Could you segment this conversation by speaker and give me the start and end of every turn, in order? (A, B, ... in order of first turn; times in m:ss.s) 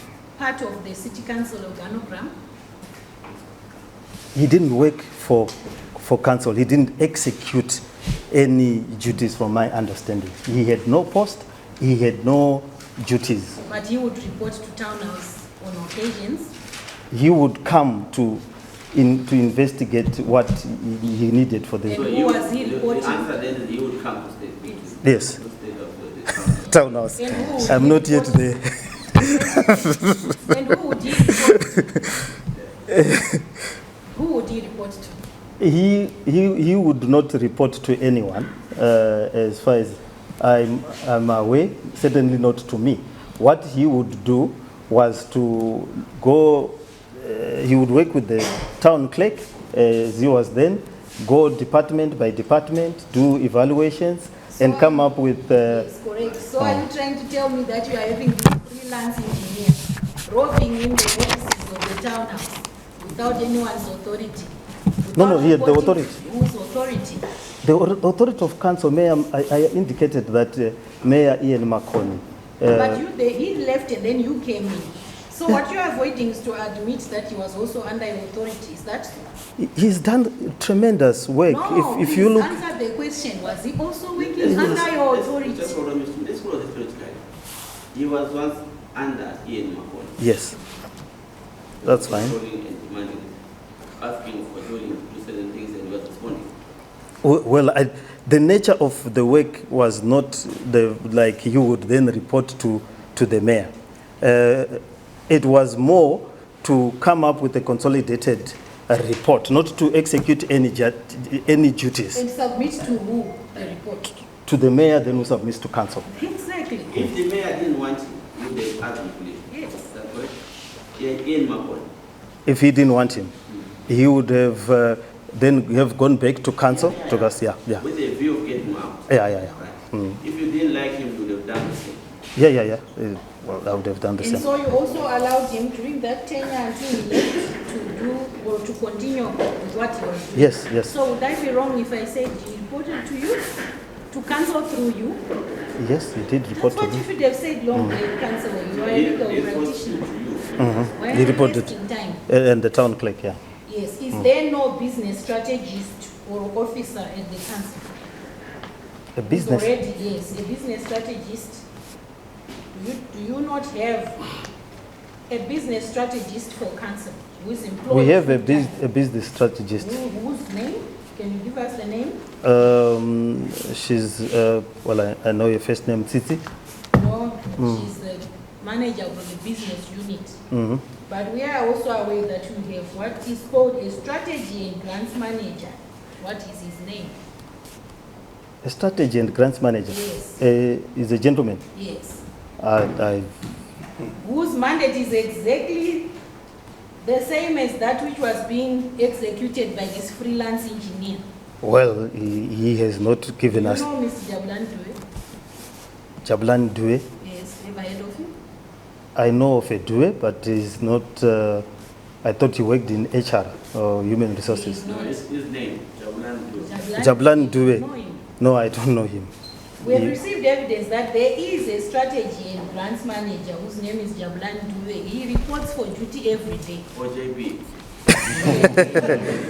0:00.4-0:02.3 A
0:04.3-0:13.6 B
0:13.6-0:16.5 A
0:17.1-0:22.1 B
0:21.8-0:23.4 A
0:21.9-0:26.8 C
0:25.0-0:25.4 B
0:26.6-0:30.5 B
0:27.2-0:28.5 A
0:29.2-0:29.8 A
0:30.4-0:32.0 A
0:31.2-0:31.8 B
0:32.9-0:33.4 B
0:34.1-0:35.2 A
0:35.6-0:55.9 B
0:54.5-1:07.2 A
0:56.6-0:56.9 B
1:05.1-1:06.2 B
1:07.6-1:13.0 B
1:12.7-1:19.3 A
1:19.6-1:22.6 B
1:21.5-1:25.7 A
1:24.2-1:27.2 C
1:27.9-1:30.2 C
1:30.2-1:30.6 B
1:31.8-1:33.3 C
1:31.8-1:32.4 B
1:34.0-1:36.5 C
1:37.2-1:52.2 B
1:52.1-1:54.2 A
1:54.4-1:56.1 B
1:56.1-1:56.9 A
1:56.9-2:00.3 C
1:59.5-1:59.9 A
2:01.0-2:01.9 C
2:02.4-2:03.3 B
2:03.9-2:07.8 B
2:06.7-2:12.0 C
2:09.1-2:10.2 B
2:12.4-2:14.5 B
2:14.2-2:23.5 A
2:20.3-2:20.9 B
2:24.1-2:25.2 A
2:25.8-2:27.0 B
2:26.5-2:30.1 A
2:27.7-2:28.0 B
2:28.7-2:30.9 C
2:30.6-2:31.7 B
2:30.9-2:32.2 A
2:32.3-2:33.4 B
2:33.6-2:38.0 A
2:39.1-2:39.7 B
2:39.3-2:41.6 A
2:42.7-2:44.2 A
2:45.3-2:48.8 A
2:47.9-2:50.0 B
2:49.8-2:52.2 A
2:52.4-2:56.4 B
2:56.9-3:00.4 A
2:57.6-2:57.9 B
3:00.5-3:00.8 B
3:01.0-3:07.2 A
3:08.6-3:11.6 B
3:09.9-3:10.4 A
3:11.7-3:12.2 A
3:12.6-3:13.3 B
3:14.2-3:16.1 A
3:17.0-3:21.2 A
3:21.6-3:23.8 B
3:23.5-3:25.0 A
3:26.2-3:27.0 B
3:27.2-3:28.3 A
3:29.1-3:31.6 B
3:32.2-3:34.8 B
3:34.4-3:35.2 A
3:34.8-3:36.7 C
3:36.6-3:38.2 A
3:36.9-3:37.8 B
3:38.4-3:40.2 B
3:39.8-3:46.9 A
3:46.9-3:47.6 C
3:48.3-3:49.2 B
3:48.4-3:49.2 C
3:48.4-3:49.2 A